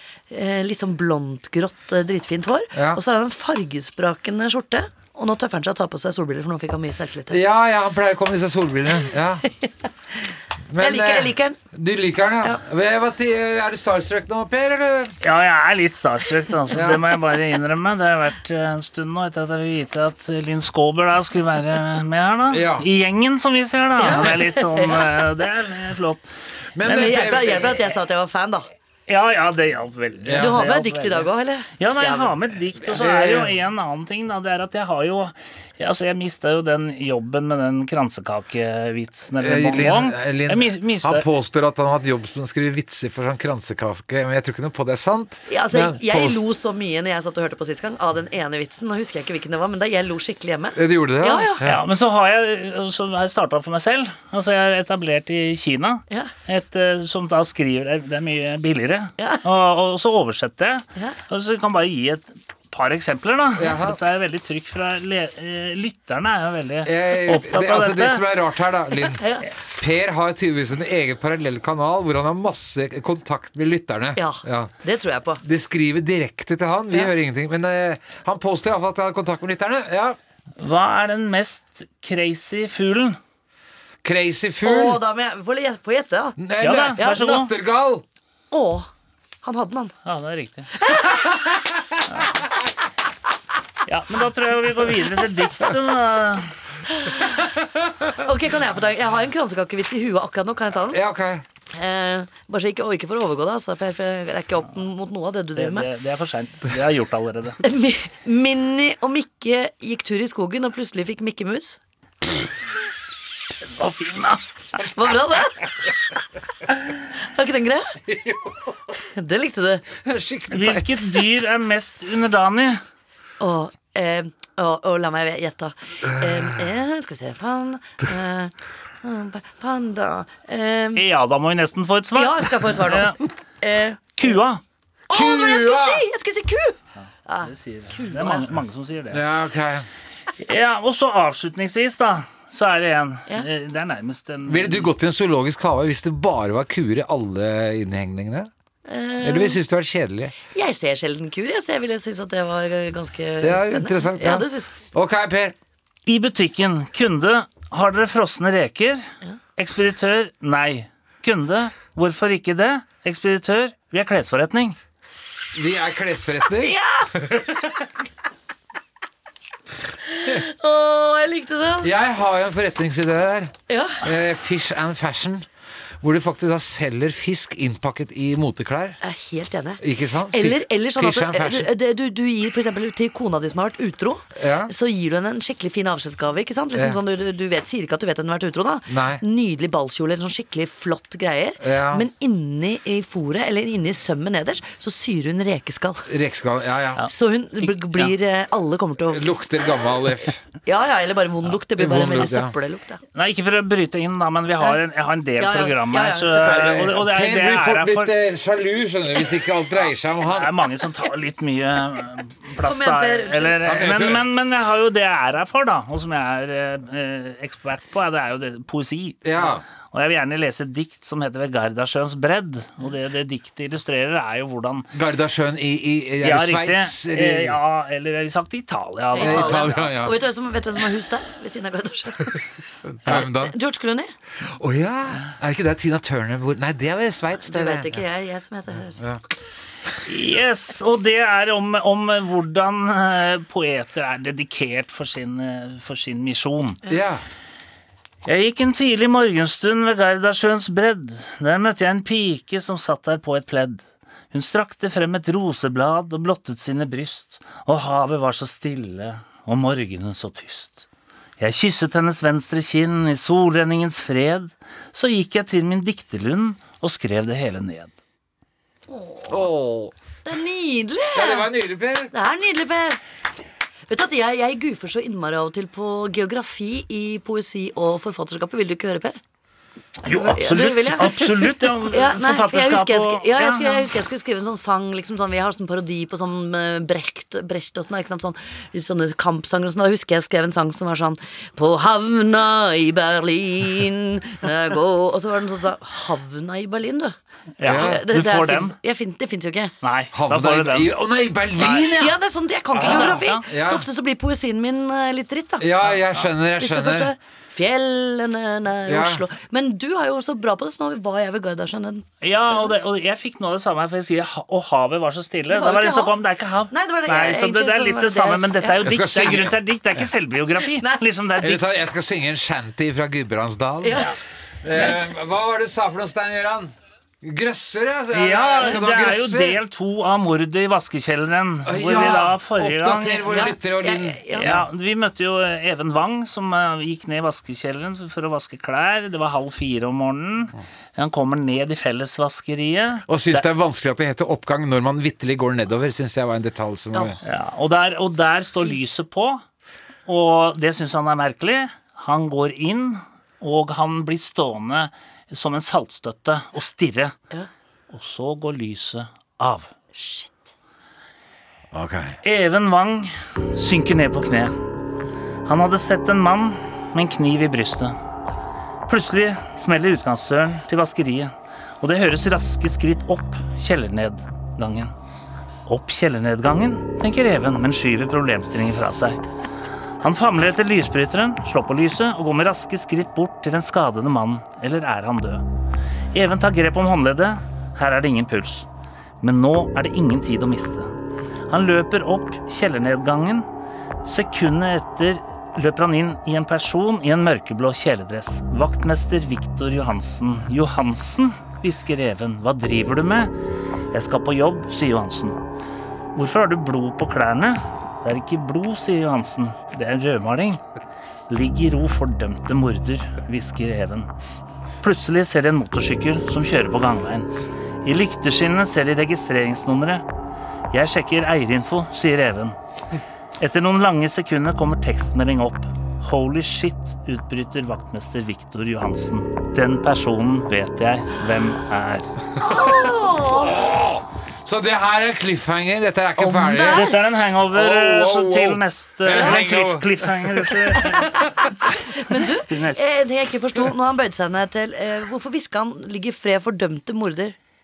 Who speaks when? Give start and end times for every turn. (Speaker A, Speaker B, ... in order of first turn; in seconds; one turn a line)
Speaker A: 0.3-7.4
Speaker B: 2.7-3.0
Speaker B: 7.3-9.4
Speaker A: 9.5-11.6
Speaker B: 10.7-15.2
Speaker C: 15.2-26.2
Speaker B: 16.7-17.1
Speaker B: 22.5-22.9
Speaker A: 24.0-25.1
Speaker B: 26.8-27.8
Speaker C: 26.8-27.6
Speaker A: 26.9-28.7
Speaker C: 29.1-41.2
Speaker B: 30.2-30.6
Speaker A: 30.4-32.4
Speaker B: 32.9-33.5
Speaker B: 39.4-46.4
Speaker A: 45.5-51.7
Speaker B: 50.8-51.8
Speaker C: 51.6-68.2
Speaker B: 63.6-64.0
Speaker B: 66.8-74.7
Speaker A: 69.1-69.5
Speaker A: 74.2-75.4
Speaker B: 75.4-80.2
Speaker C: 80.6-83.2
Speaker B: 84.0-85.0
Speaker A: 84.6-86.4
Speaker B: 86.4-88.0
Speaker C: 86.6-87.5
Speaker A: 87.0-87.3
Speaker A: 88.5-88.9
Speaker A: 89.4-89.9
Speaker C: 90.0-90.7
Speaker C: 93.9-96.5
Speaker A: 97.0-97.4
Speaker A: 98.2-101.0
Speaker B: 100.9-101.5
Speaker A: 101.7-105.9
Speaker C: 105.6-107.6
Speaker A: 107.6-111.8
Speaker C: 113.8-114.4
Speaker A: 114.8-115.6
Speaker A: 117.2-118.0
Speaker B: 118.0-118.9
Speaker A: 119.2-119.9
Speaker B: 120.0-121.2
Speaker C: 120.5-122.8
Speaker A: 123.4-131.0
Speaker B: 126.2-126.5
Speaker C: 130.9-133.2
Speaker A: 132.2-134.3
Speaker C: 134.2-134.6
Speaker A: 135.1-138.5
Speaker B: 135.1-136.1
Speaker C: 137.5-139.2
Speaker B: 139.1-139.9
Speaker C: 140.4-144.9
Speaker B: 144.5-148.5
Speaker A: 148.9-149.6
Speaker B: 149.2-150.3
Speaker A: 150.5-154.8
Speaker B: 153.4-155.6
Speaker C: 156.1-159.1
Speaker C: 159.6-164.8
Speaker B: 165.5-167.9
Speaker A: 166.6-167.1
Speaker A: 170.1-171.9
Speaker B: 171.8-175.5
Speaker A: 173.7-174.1
Speaker B: 176.0-179.0
Speaker A: 179.0-196.1
Speaker B: 179.8-181.7
Speaker B: 184.4-184.7
Speaker B: 188.9-189.2
Speaker B: 191.6-192.1
Speaker B: 196.1-197.0
Speaker A: 197.1-199.4
Speaker B: 199.1-200.4
Speaker A: 200.7-203.0
Speaker B: 201.8-202.5
Speaker C: 203.1-208.1
Speaker A: 205.4-206.8
Speaker B: 206.4-210.5
Speaker C: 210.3-224.9
Speaker A: 212.6-213.6
Speaker B: 213.6-214.3
Speaker B: 219.2-219.6
Speaker B: 224.9-227.6
Speaker C: 226.2-229.9
Speaker A: 229.1-232.4
Speaker B: 229.2-230.2
Speaker B: 232.9-233.6
Speaker A: 233.1-234.1
Speaker B: 234.4-238.0
Speaker A: 237.4-239.0
Speaker C: 240.1-246.8
Speaker B: 246.9-247.2
Speaker C: 248.2-260.9
Speaker C: 261.4-267.9
Speaker A: 268.9-269.4
Speaker B: 269.3-269.9
Speaker A: 270.3-271.5
Speaker B: 271.1-272.1
Speaker A: 272.1-273.0
Speaker A: 273.9-279.2
Speaker A: 280.0-281.2
Speaker C: 280.1-283.9
Speaker A: 281.9-299.7
Speaker C: 297.6-298.8
Speaker B: 297.6-298.1
Speaker C: 299.8-300.9
Speaker B: 300.1-302.2
Speaker A: 301.6-305.7
Speaker C: 302.8-303.4
Speaker B: 303.5-303.9
Speaker B: 305.6-307.1
Speaker A: 306.6-312.7
Speaker B: 308.9-309.2
Speaker C: 312.2-321.6
Speaker A: 315.5-316.2
Speaker A: 316.7-319.4
Speaker B: 318.9-319.6
Speaker A: 320.8-321.0
Speaker B: 321.4-324.1
Speaker A: 323.8-324.1
Speaker B: 324.6-329.6
Speaker C: 328.1-333.5
Speaker B: 331.6-334.6
Speaker A: 333.3-334.6
Speaker C: 334.4-343.4
Speaker B: 343.1-347.2
Speaker C: 347.2-349.4
Speaker C: 350.1-357.1
Speaker C: 357.9-359.7
Speaker A: 359.9-360.4
Speaker B: 361.7-362.2
Speaker C: 362.2-364.5
Speaker C: 365.5-367.9
Speaker C: 368.9-374.9
Speaker C: 375.7-379.2
Speaker C: 380.0-385.4
Speaker C: 386.1-388.7
Speaker C: 389.2-390.9
Speaker C: 391.5-393.5
Speaker C: 394.0-403.3
Speaker C: 403.9-405.4
Speaker C: 406.2-410.6
Speaker C: 411.3-414.1
Speaker C: 414.8-417.3
Speaker C: 417.9-420.0
Speaker C: 420.7-422.6
Speaker C: 423.4-432.1
Speaker A: 432.4-433.6
Speaker B: 432.5-436.9
Speaker A: 436.2-436.9
Speaker C: 436.6-441.1
Speaker B: 437.5-441.2
Speaker A: 439.1-439.4
Speaker A: 441.9-447.4
Speaker C: 442.5-442.8